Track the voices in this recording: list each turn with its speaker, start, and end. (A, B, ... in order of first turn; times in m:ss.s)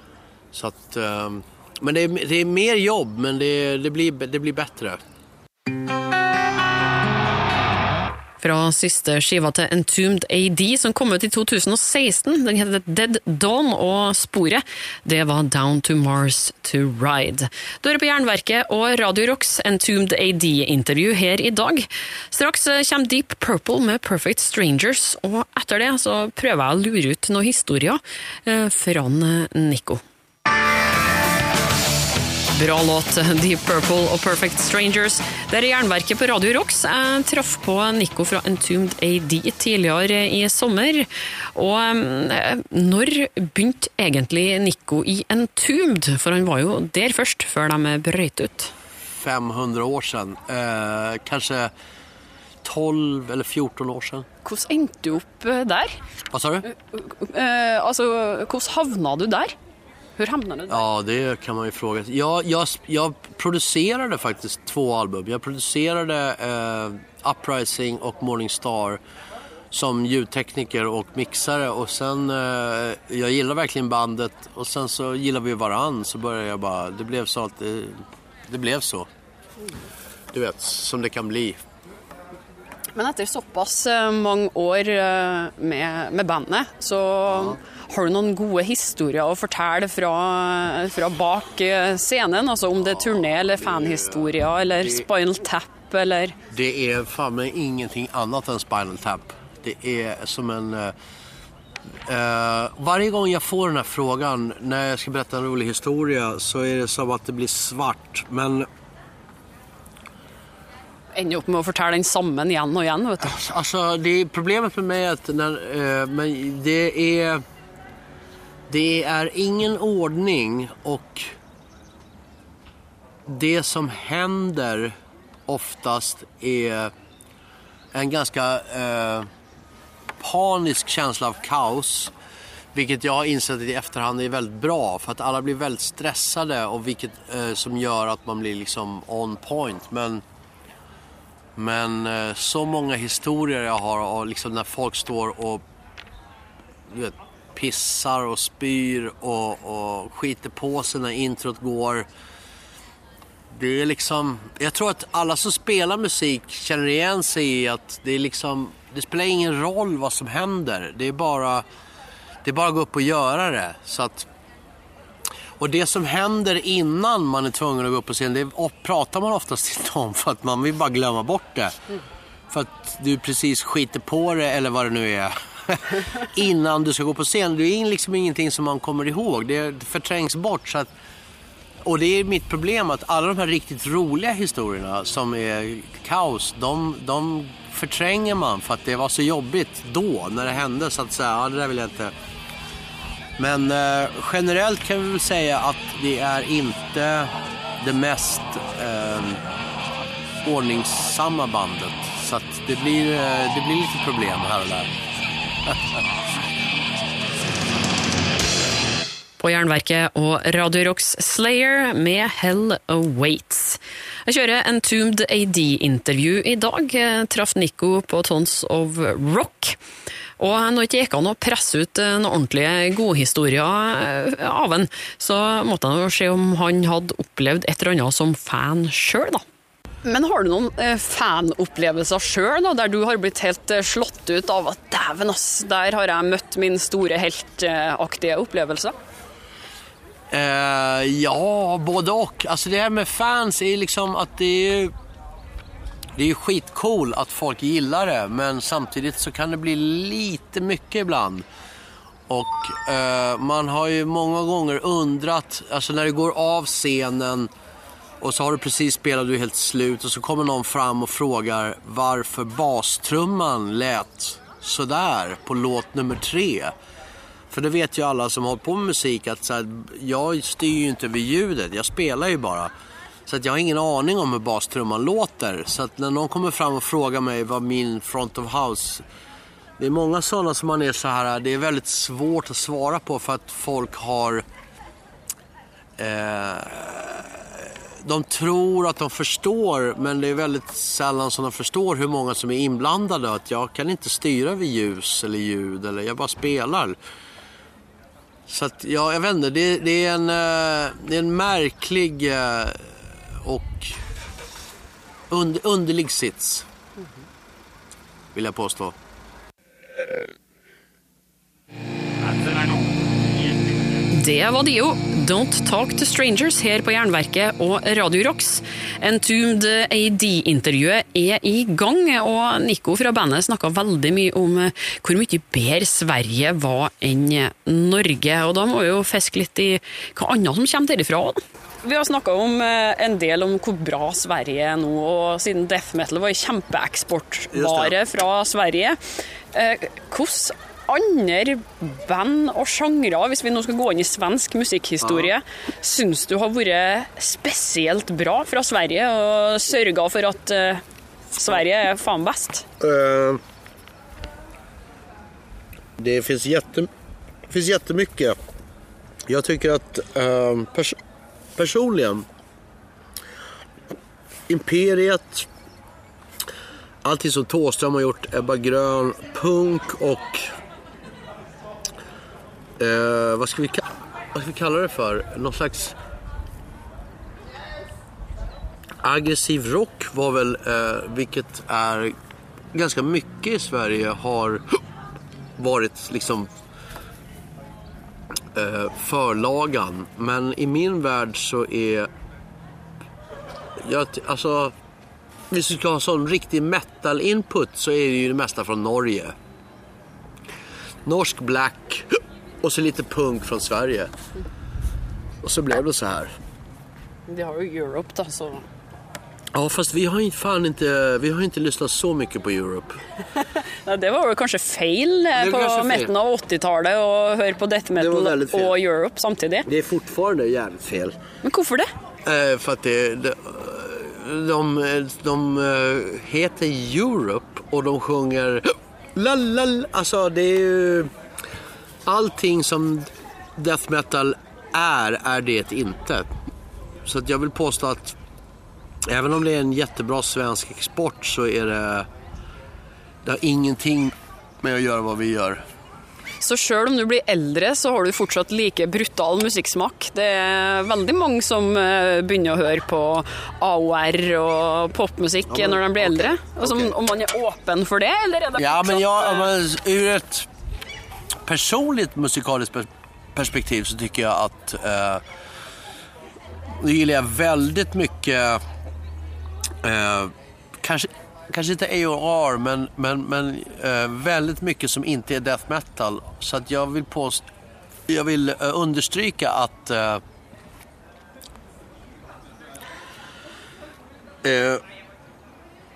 0:00.5-0:05.0 A
0:08.4-0:30.0 B
0:32.5-0:48.7 B
0:49.1-0:51.7 A
0:52.6-0:54.3 A
0:54.4-0:56.0 B
0:56.3-0:56.7 A
0:56.7-0:59.5 B
1:00.2-1:00.8 B
1:00.7-1:09.0 A
1:09.7-1:19.1 A
1:20.3-1:21.6 A
1:22.9-1:36.4 B
1:27.3-1:27.6 A
1:32.9-1:35.0 A
1:36.5-1:40.9 A
1:42.0-1:48.7 A
1:51.1-1:53.4 B
1:53.2-1:57.4 A
1:58.7-2:01.3 A
2:03.3-2:04.9 A
2:05.5-2:06.9 A
2:07.9-2:09.3 A
2:10.2-2:12.1 A
2:12.7-2:20.2 A
2:21.6-2:25.6 A
2:26.9-2:32.1 A
2:33.5-2:41.6 A
2:42.4-2:44.3 A
2:45.6-2:51.7 A
2:52.5-3:00.9 A
3:01.8-3:12.1 A
3:13.4-3:19.4 A
3:20.4-3:24.9 A
3:29.4-3:39.8 B
3:40.4-3:49.4 B
3:50.0-3:58.9 B
4:00.3-4:04.9 A
4:06.2-4:11.4 A
4:12.3-4:17.5 A
4:18.2-4:26.7 A
4:27.5-4:32.7 A
4:33.2-4:39.0 A
4:39.8-4:44.4 A
4:46.0-4:57.0 A
4:58.5-5:04.0 A
5:05.3-5:06.7 A
5:08.3-5:09.0 A
5:14.1-5:39.0 B
5:37.5-5:37.9 A
5:39.5-5:50.8 B
5:45.0-5:45.3 A
5:51.3-5:52.7 B
5:52.8-5:53.4 A
5:56.0-5:56.9 A
5:57.5-5:58.4 A
5:59.3-6:01.0 A
6:01.6-6:02.2 A
6:04.5-6:05.5 A
6:07.0-6:10.5 A
6:12.8-6:16.0 A
6:19.0-6:22.1 A
6:22.7-6:24.8 A
6:25.6-6:26.5 A
6:28.5-6:32.1 A
6:33.8-6:34.7 A
6:35.5-6:39.3 A
6:41.0-6:44.1 A
6:45.4-6:46.3 A
6:47.3-6:48.7 B
6:49.5-6:53.0 A
6:53.4-6:59.7 B
6:55.4-6:56.1 A
6:58.0-6:58.8 A
6:59.6-7:01.2 A
7:01.4-7:01.9 B
7:02.2-7:11.1 A
7:12.0-7:16.3 A
7:17.0-7:18.2 A
7:19.0-7:22.1 A
7:23.2-7:25.6 A
7:26.4-7:39.5 B
7:35.5-7:36.9 A
7:38.6-7:40.5 A
7:41.4-7:45.2 A
7:46.8-7:48.6 A
7:49.8-7:57.4 A
7:58.1-8:00.2 A
8:04.4-8:04.8 A